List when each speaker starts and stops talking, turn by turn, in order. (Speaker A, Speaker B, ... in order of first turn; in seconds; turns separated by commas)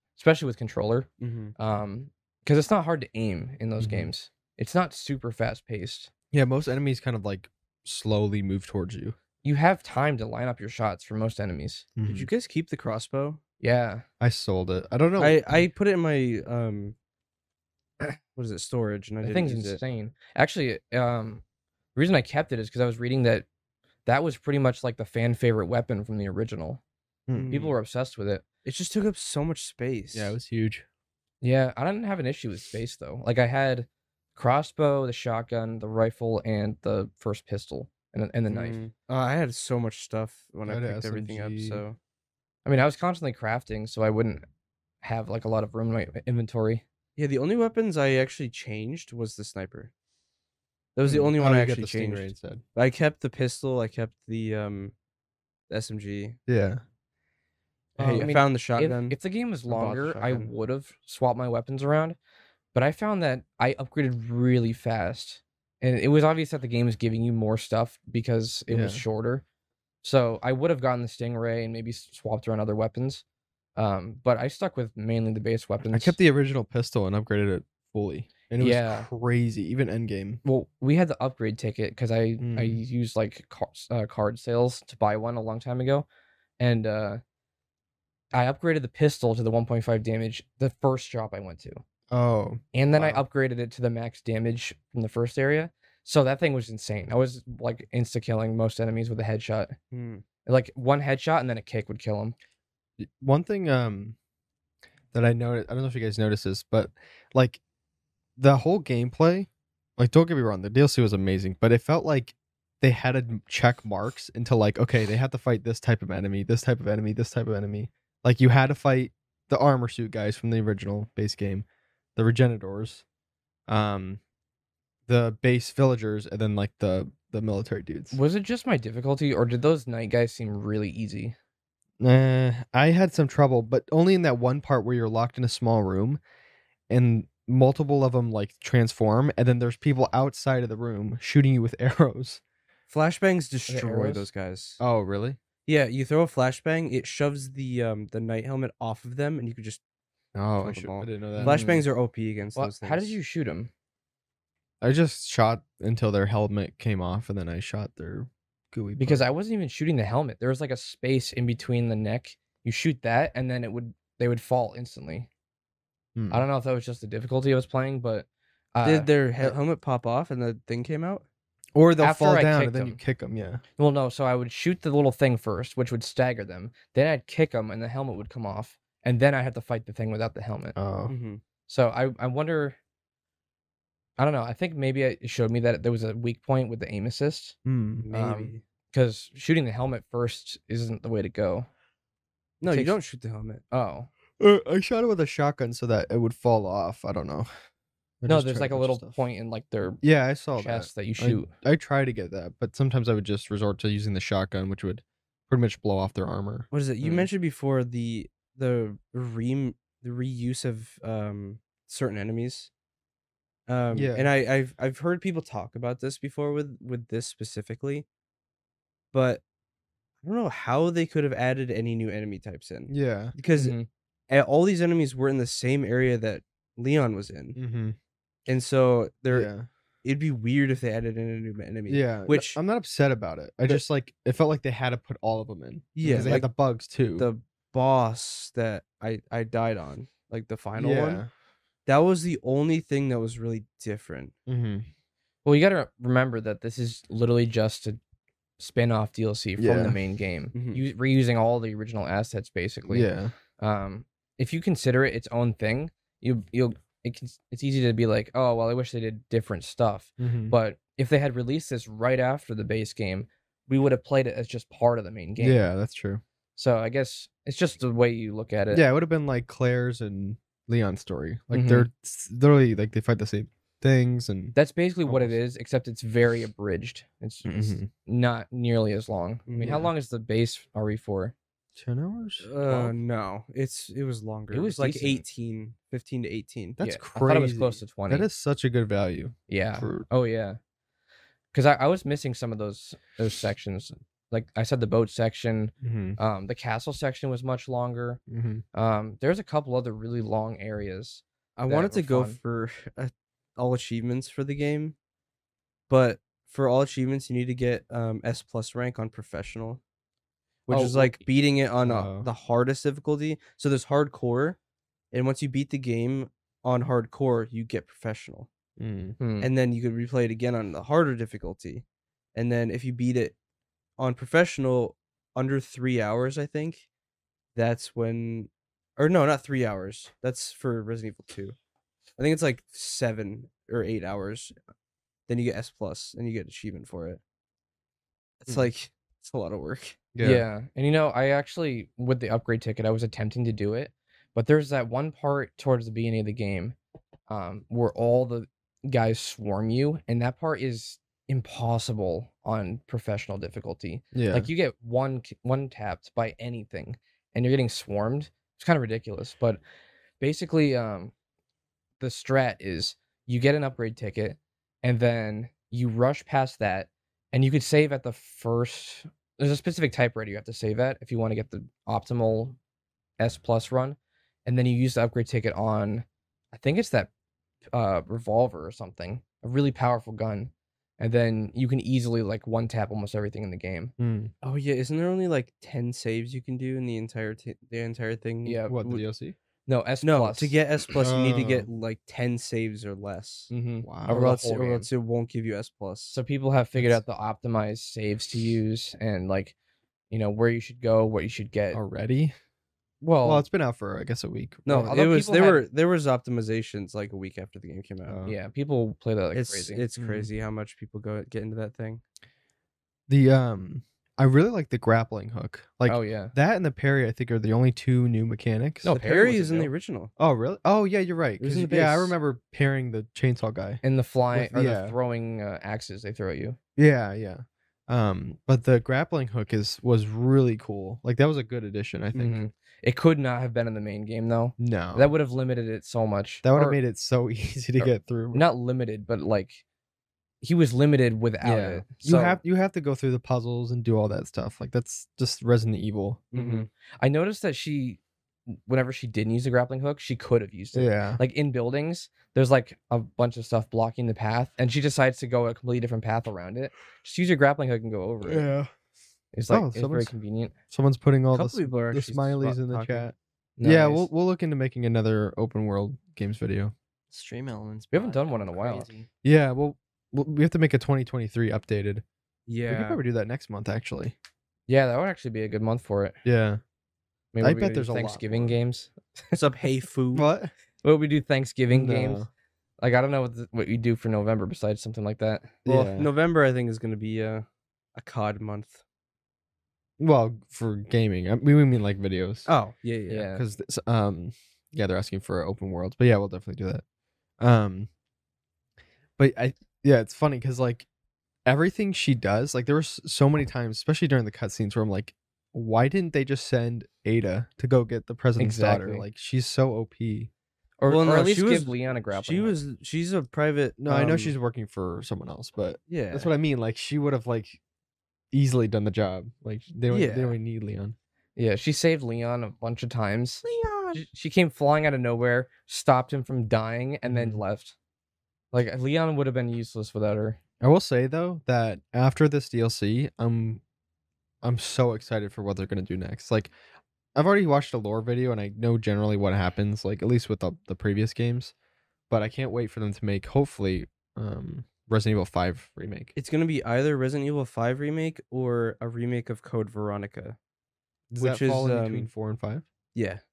Speaker A: 0.2-6.1, Speaker B: 1.2-1.6, Speaker C: 3.8-4.1, Speaker C: 6.3-9.2, Speaker A: 9.4-11.9, Speaker C: 12.0-12.3, Speaker B: 12.1-13.4, Speaker A: 13.6-14.1, Speaker C: 14.2-15.6, Speaker B: 15.2-17.0, Speaker B: 18.4-19.8, Speaker A: 19.2-21.4, Speaker A: 21.9-23.5, Speaker A: 24.1-26.8, Speaker C: 27.3-27.5, Speaker B: 27.3-27.8, Speaker A: 27.5-28.4, Speaker B: 28.6-30.4, Speaker C: 30.1-30.9, Speaker A: 31.4-38.8, Speaker B: 38.5-42.0, Speaker C: 40.7-41.8, Speaker A: 42.7-44.5, Speaker A: 45.0-46.8, Speaker B: 47.2-49.9, Speaker B: 51.0-55.0, Speaker C: 51.1-52.6, Speaker B: 55.7-56.4, Speaker C: 56.5-56.8, Speaker C: 58.0-58.4, Speaker B: 58.0-59.2, Speaker A: 58.1-62.2, Speaker B: 59.7-60.5, Speaker A: 62.7-69.4, Speaker C: 68.7-69.0, Speaker A: 70.0-73.2, Speaker A: 73.8-76.2, Speaker C: 75.9-80.4, Speaker A: 78.6-79.1, Speaker A: 80.4-86.1, Speaker C: 82.4-82.8, Speaker A: 86.6-87.2, Speaker A: 88.3-91.8, Speaker C: 92.1-93.2, Speaker A: 92.7-99.8, Speaker B: 99.9-100.2, Speaker A: 100.5-102.3, Speaker C: 103.0-104.2, Speaker C: 105.1-107.6, Speaker C: 108.4-123.0, Speaker C: 123.7-124.2, Speaker C: 125.1-128.2, Speaker A: 128.1-131.4, Speaker C: 132.0-136.2, Speaker C: 136.9-142.4, Speaker B: 142.9-144.8, Speaker A: 143.7-144.3, Speaker C: 144.8-145.4, Speaker B: 145.7-149.8, Speaker C: 150.3-151.6, Speaker B: 150.6-153.2, Speaker A: 151.4-151.9, Speaker A: 152.6-153.7, Speaker C: 154.8-159.3, Speaker A: 159.0-165.3, Speaker C: 166.2-166.5, Speaker A: 166.3-169.1, Speaker B: 168.8-171.2, Speaker C: 171.8-173.6, Speaker A: 172.0-173.0, Speaker A: 173.8-180.8, Speaker C: 180.8-181.1, Speaker B: 181.1-181.4, Speaker A: 181.7-182.8, Speaker A: 184.2-187.6, Speaker C: 187.7-188.1, Speaker B: 188.1-188.6, Speaker A: 188.1-191.7, Speaker B: 192.6-193.6, Speaker A: 192.7-192.9, Speaker A: 193.7-194.1, Speaker C: 194.4-197.5, Speaker C: 198.2-199.2, Speaker A: 198.3-200.0, Speaker C: 200.0-207.3, Speaker A: 200.6-201.5, Speaker B: 206.7-212.7, Speaker B: 213.7-218.1, Speaker C: 213.9-214.3, Speaker B: 219.1-219.4, Speaker B: 220.2-223.8, Speaker C: 222.9-223.3, Speaker A: 223.6-223.9, Speaker B: 224.3-227.6, Speaker C: 227.6-228.0, Speaker B: 228.5-229.5, Speaker C: 229.3-229.7, Speaker B: 230.0-232.6, Speaker C: 231.9-237.3, Speaker B: 235.9-236.5, Speaker A: 236.0-236.4, Speaker B: 237.2-241.2, Speaker C: 240.8-241.3, Speaker B: 241.9-244.3, Speaker C: 244.5-244.9, Speaker A: 245.4-248.0, Speaker A: 248.6-265.6, Speaker C: 249.6-250.0, Speaker B: 250.5-250.8, Speaker C: 252.9-253.3, Speaker C: 260.2-260.6, Speaker C: 265.4-266.2, Speaker A: 266.6-268.8, Speaker C: 268.7-274.6, Speaker A: 271.5-271.9, Speaker A: 274.6-281.4, Speaker C: 275.1-275.4, Speaker C: 277.4-277.9, Speaker B: 279.5-279.9, Speaker C: 279.6-279.9, Speaker C: 281.8-282.5, Speaker B: 282.4-286.8, Speaker A: 282.6-282.9, Speaker A: 284.5-285.2, Speaker C: 286.8-290.1, Speaker A: 286.8-288.3, Speaker A: 289.5-290.6, Speaker A: 291.5-298.2, Speaker C: 295.8-296.2, Speaker C: 298.3-298.6, Speaker A: 298.7-302.4, Speaker B: 301.6-305.0, Speaker B: 305.9-309.8, Speaker B: 310.7-314.6, Speaker C: 310.7-311.1, Speaker A: 310.8-311.0, Speaker C: 311.8-312.3, Speaker B: 315.1-318.5, Speaker C: 318.8-319.2, Speaker A: 319.2-319.5, Speaker B: 319.4-321.8, Speaker B: 322.4-323.4, Speaker B: 324.0-326.9, Speaker B: 327.6-331.6, Speaker B: 332.2-334.6, Speaker B: 335.3-337.2, Speaker B: 338.4-340.0, Speaker C: 340.1-340.5, Speaker A: 340.2-346.8, Speaker A: 347.3-359.6, Speaker C: 354.1-354.5, Speaker A: 360.2-361.1, Speaker A: 362.0-372.6, Speaker A: 373.2-377.1, Speaker A: 377.7-383.9, Speaker C: 384.0-384.3, Speaker B: 384.4-389.0, Speaker A: 388.4-388.8, Speaker C: 388.7-389.4, Speaker A: 389.7-390.6, Speaker B: 390.0-393.5, Speaker C: 391.0-391.7, Speaker A: 393.5-394.9, Speaker C: 393.8-394.3, Speaker B: 394.1-396.2, Speaker A: 396.1-399.6, Speaker C: 396.8-397.0, Speaker A: 400.1-401.8, Speaker C: 401.7-402.4, Speaker A: 403.0-403.5, Speaker C: 403.2-405.0, Speaker B: 404.7-408.2, Speaker A: 404.8-405.6, Speaker C: 408.1-408.4, Speaker A: 408.3-409.8, Speaker B: 409.3-412.0, Speaker C: 410.0-410.3, Speaker C: 413.1-418.9, Speaker A: 415.9-416.3, Speaker A: 418.8-419.7, Speaker B: 418.9-420.1, Speaker C: 420.2-425.0, Speaker B: 421.4-422.2, Speaker A: 423.8-426.6, Speaker C: 426.8-432.4, Speaker A: 432.1-436.8, Speaker C: 434.6-435.1, Speaker C: 436.4-438.4, Speaker A: 437.8-439.6, Speaker A: 440.4-442.4, Speaker C: 441.4-446.6, Speaker B: 446.3-446.7, Speaker A: 446.4-458.5, Speaker C: 450.7-451.2, Speaker C: 458.2-458.7, Speaker A: 459.3-460.5, Speaker C: 459.5-460.1, Speaker C: 460.7-466.7, Speaker B: 461.3-463.1, Speaker A: 463.6-464.1, Speaker D: 467.1-469.1, Speaker A: 467.9-468.9, Speaker C: 469.2-472.0, Speaker B: 472.5-473.0, Speaker C: 472.7-474.1, Speaker A: 474.7-476.2, Speaker C: 476.2-476.6, Speaker A: 477.3-479.4, Speaker C: 477.4-478.6, Speaker B: 479.3-480.3, Speaker C: 480.1-480.5, Speaker A: 480.8-482.2, Speaker C: 481.7-482.3, Speaker A: 482.8-485.6, Speaker C: 485.6-486.1, Speaker B: 485.7-488.8, Speaker C: 490.0-492.5, Speaker B: 492.5-493.3, Speaker A: 493.1-493.4, Speaker C: 493.3-496.8, Speaker C: 497.4-497.9, Speaker C: 499.2-500.9, Speaker C: 501.5-510.3, Speaker A: 508.4-509.1, Speaker A: 510.8-512.6, Speaker B: 510.9-514.4, Speaker C: 513.8-517.6, Speaker B: 515.9-516.3, Speaker C: 518.3-521.0, Speaker B: 519.9-520.4, Speaker A: 521.4-527.8, Speaker B: 523.5-524.0, Speaker C: 527.1-527.4, Speaker A: 528.5-530.4, Speaker C: 530.6-533.6, Speaker C: 534.4-536.5, Speaker C: 537.1-541.5, Speaker C: 542.1-546.1, Speaker B: 546.1-550.4, Speaker C: 551.1-552.6, Speaker B: 551.2-552.1, Speaker B: 553.0-553.2